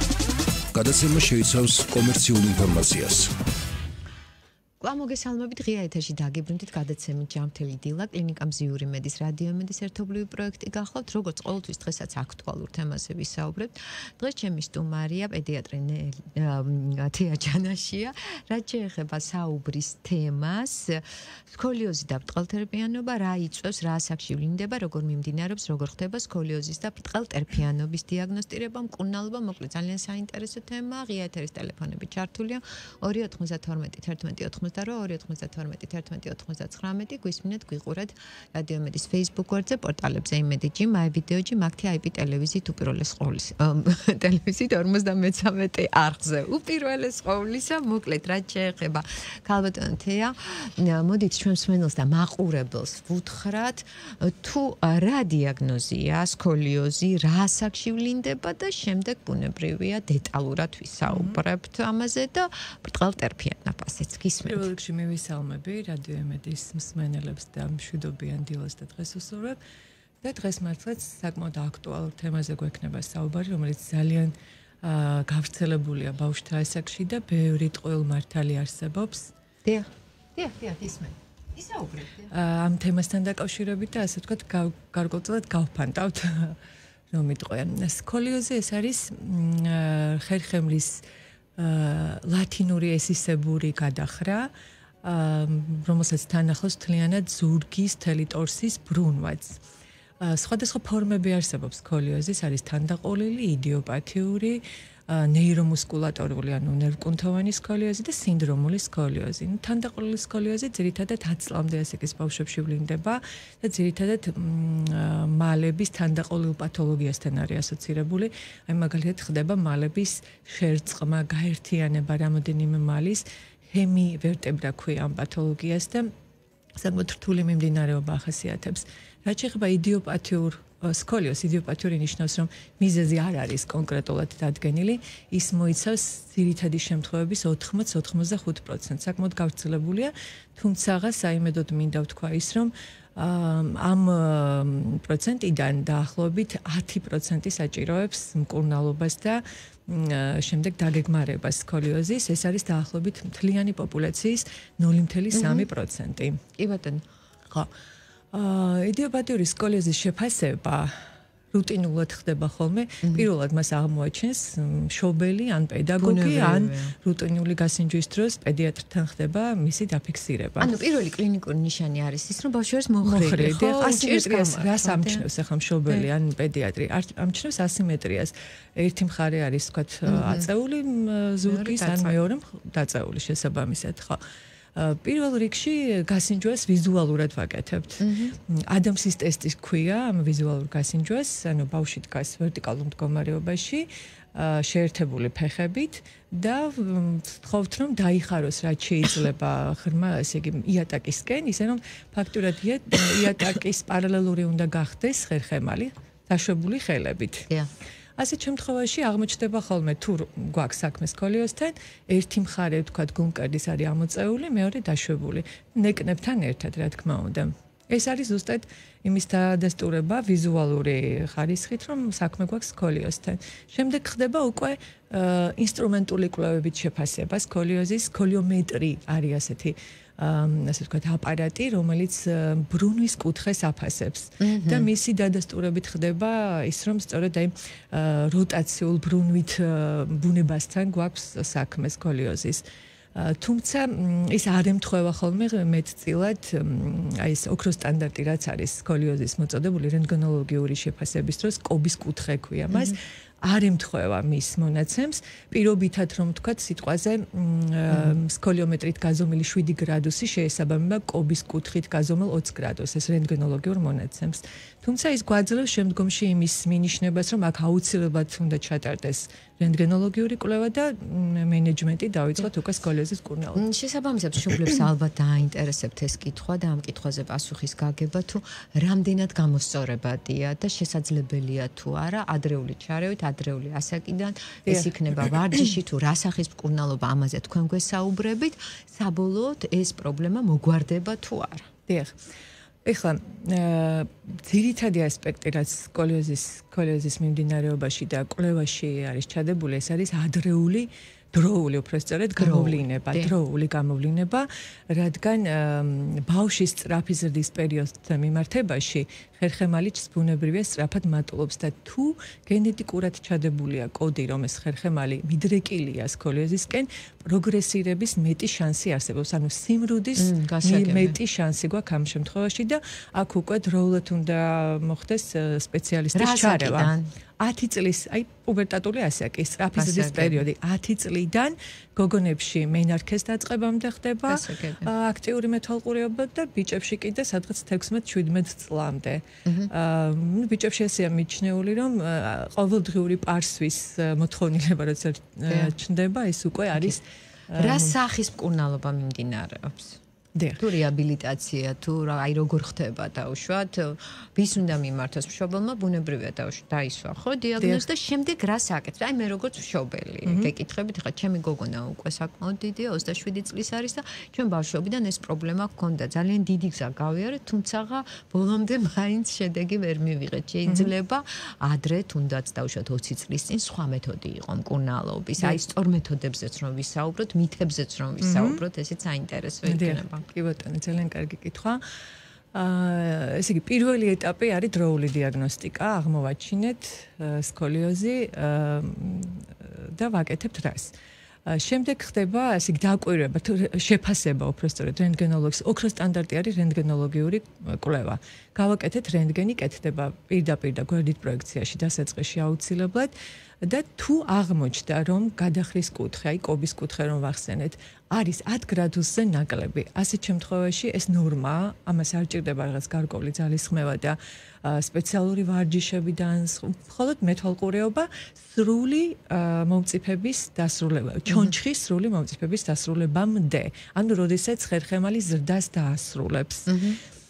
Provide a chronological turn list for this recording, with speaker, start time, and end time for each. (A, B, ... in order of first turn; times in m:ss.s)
0:00.7-0:03.3 A
0:04.8-1:04.7 B
1:01.1-1:01.4 C
1:04.4-1:09.6 C
1:10.2-1:19.3 C
1:19.6-1:22.3 B
1:22.3-1:26.6 C
1:27.1-1:31.0 C
1:31.6-1:34.5 C
1:35.0-1:39.6 C
1:40.2-2:06.1 C
2:06.8-2:36.4 C
2:35.3-2:35.7 B
2:36.6-2:37.0 B
2:38.3-2:41.0 C
2:41.5-2:50.8 C
2:46.0-2:46.9 B
2:50.6-2:55.2 B
2:53.0-3:04.2 C
3:00.1-3:00.5 B
3:01.4-3:02.2 B
3:04.8-3:27.5 C
3:08.0-3:08.4 B
3:28.2-4:33.6 C
3:54.4-3:54.9 B
4:17.9-4:18.2 B
4:33.6-4:51.7 B
4:44.7-4:45.4 C
4:51.9-4:52.1 C
4:52.8-5:48.0 C
5:02.4-5:03.3 B
5:20.2-5:21.2 B
5:26.1-5:27.1 B
5:29.8-5:30.4 B
5:34.3-5:34.9 B
5:39.4-5:39.7 B
5:45.5-5:45.8 B
5:47.5-5:50.0 B
5:50.4-5:50.6 C
5:50.6-6:20.2 B
5:57.6-5:57.8 C
6:00.2-6:00.5 C
6:10.7-6:10.9 C
6:18.2-6:18.6 C
6:19.6-6:21.8 C
6:22.5-6:30.9 C
6:31.5-7:06.8 C
7:06.7-7:07.0 B